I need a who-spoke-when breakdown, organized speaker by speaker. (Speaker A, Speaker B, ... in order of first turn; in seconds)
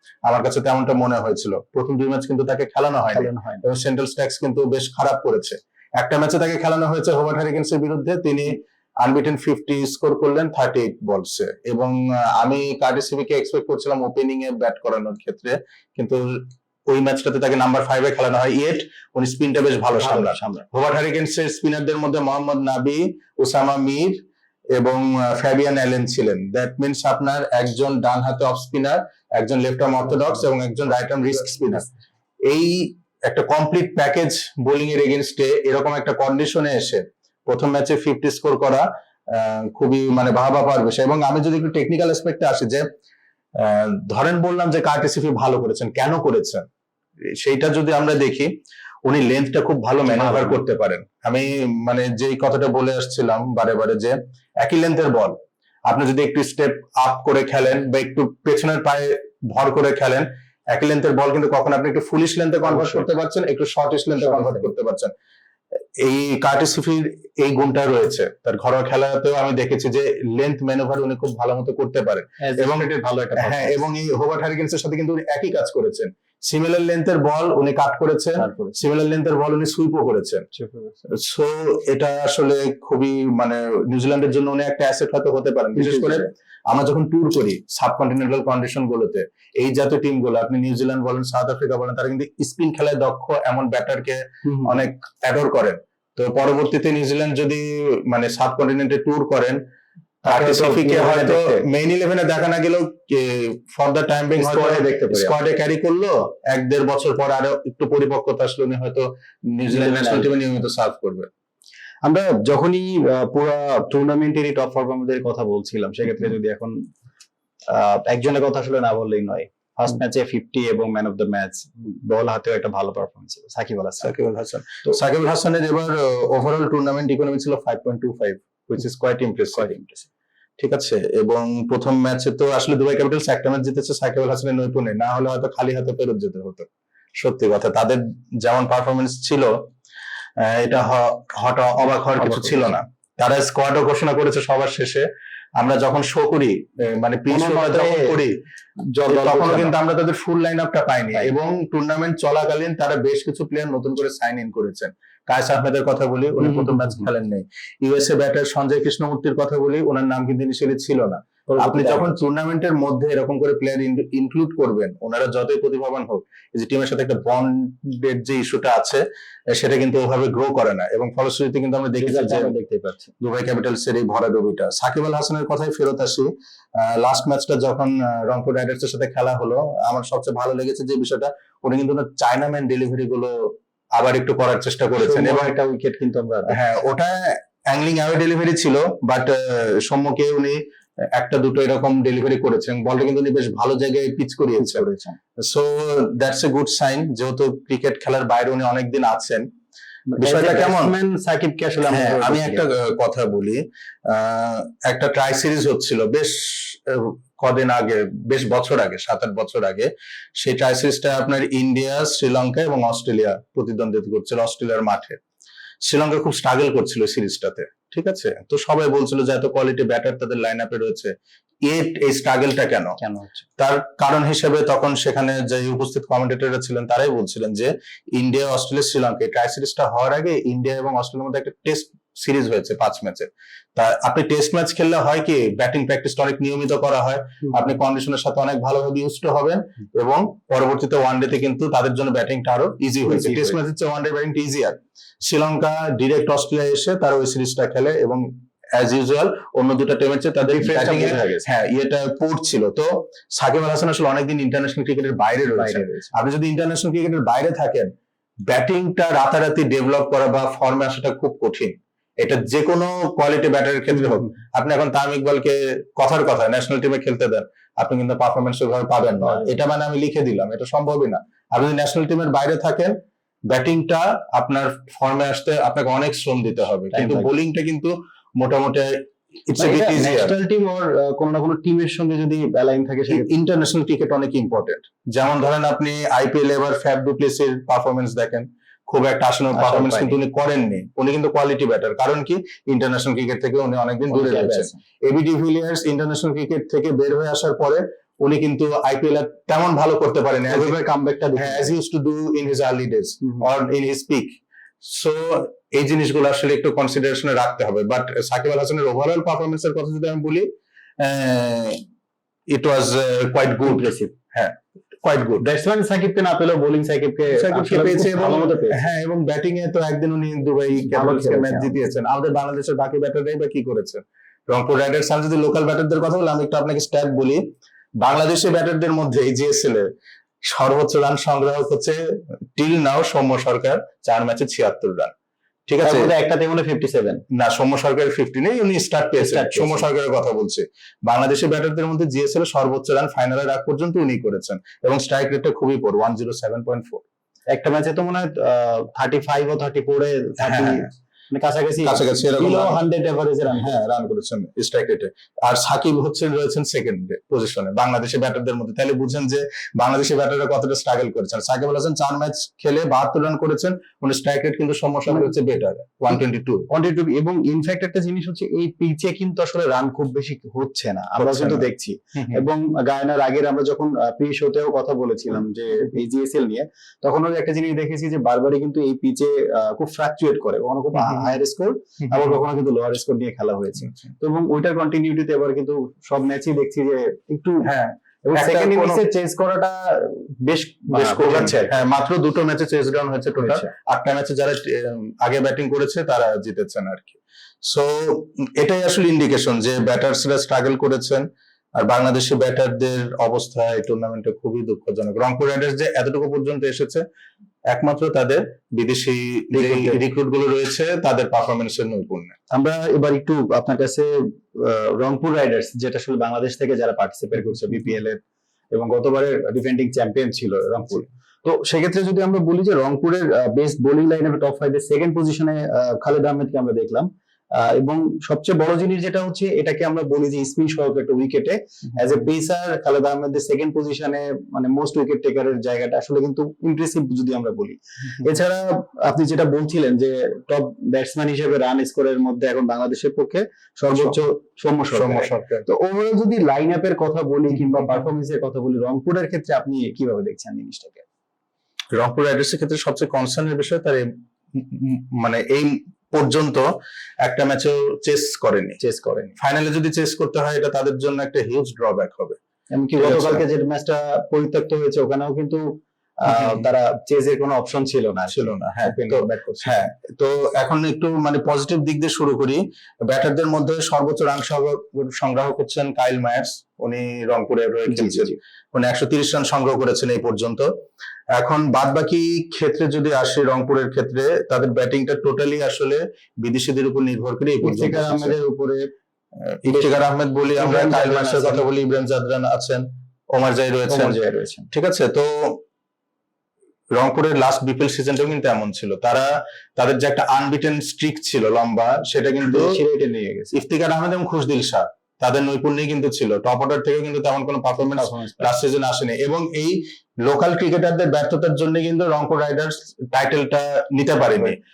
Speaker A: 0.2-24.2, 24.7-31.9, 32.5-42.9, 43.5-46.7, 47.3-48.5, 49.0-65.1, 66.0-80.5, 81.1-99.6, 100.2-111.3, 124.0-129.7, 130.6-139.6, 140.4-148.4, 149.0-172.5, 173.2-185.5, 186.5-190.6, 191.1-194.9, 195.4-199.5, 200.2-200.9, 201.9-215.2, 215.8-223.0, 223.6-257.9, 258.5-272.9, 273.5-280.4, 283.1-300.8, 301.4-311.8, 312.5-315.5, 317.3-327.4, 328.0-329.9, 330.4-335.1, 335.7-336.1, 337.3-347.0, 350.4-350.9, 351.8-352.8, 353.5-366.6, 371.2-372.4, 381.0-381.3, 387.6-389.0, 390.9-407.0, 407.7-412.4, 443.9-444.2, 444.9-445.6, 451.9-456.7, 457.2-458.8, 459.4-462.4, 463.0-463.4, 466.3-466.7, 468.3-480.7, 481.3-488.4, 489.4-494.2, 494.7-495.6, 496.9-502.8, 503.5-514.6
Speaker B: 3.1-3.6, 19.9-20.6, 50.1-50.6, 62.6-63.0, 64.2-64.7, 72.4-73.8, 78.4-78.8, 80.5-81.0, 85.8-86.3, 94.4-94.8, 100.2-101.7, 104.3-105.3, 109.7-110.3, 112.0-116.9, 117.7-124.1, 129.5-130.1, 142.2-142.6, 147.3-148.2, 149.0-149.7, 156.4-157.1, 161.5-162.2, 172.0-173.1, 185.0-186.6, 194.6-195.2, 200.1-202.6, 223.0-223.4, 243.0-243.6, 250.5-251.4, 255.5-256.1, 269.2-269.5, 276.9-277.3, 279.6-283.3, 289.5-290.2, 294.1-294.8, 300.5-301.7, 313.6-314.1, 315.4-318.8, 320.8-321.8, 335.8-337.2, 339.2-339.9, 347.5-353.7, 366.7-387.7, 388.2-391.8, 393.4-393.7, 409.5-410.0, 412.5-418.2, 418.7-451.0, 458.8-459.4, 462.7-469.9, 477.9-478.4, 487.6-488.9, 489.7-490.0, 490.6-491.6, 493.9-494.7, 502.4-503.6, 507.9-508.6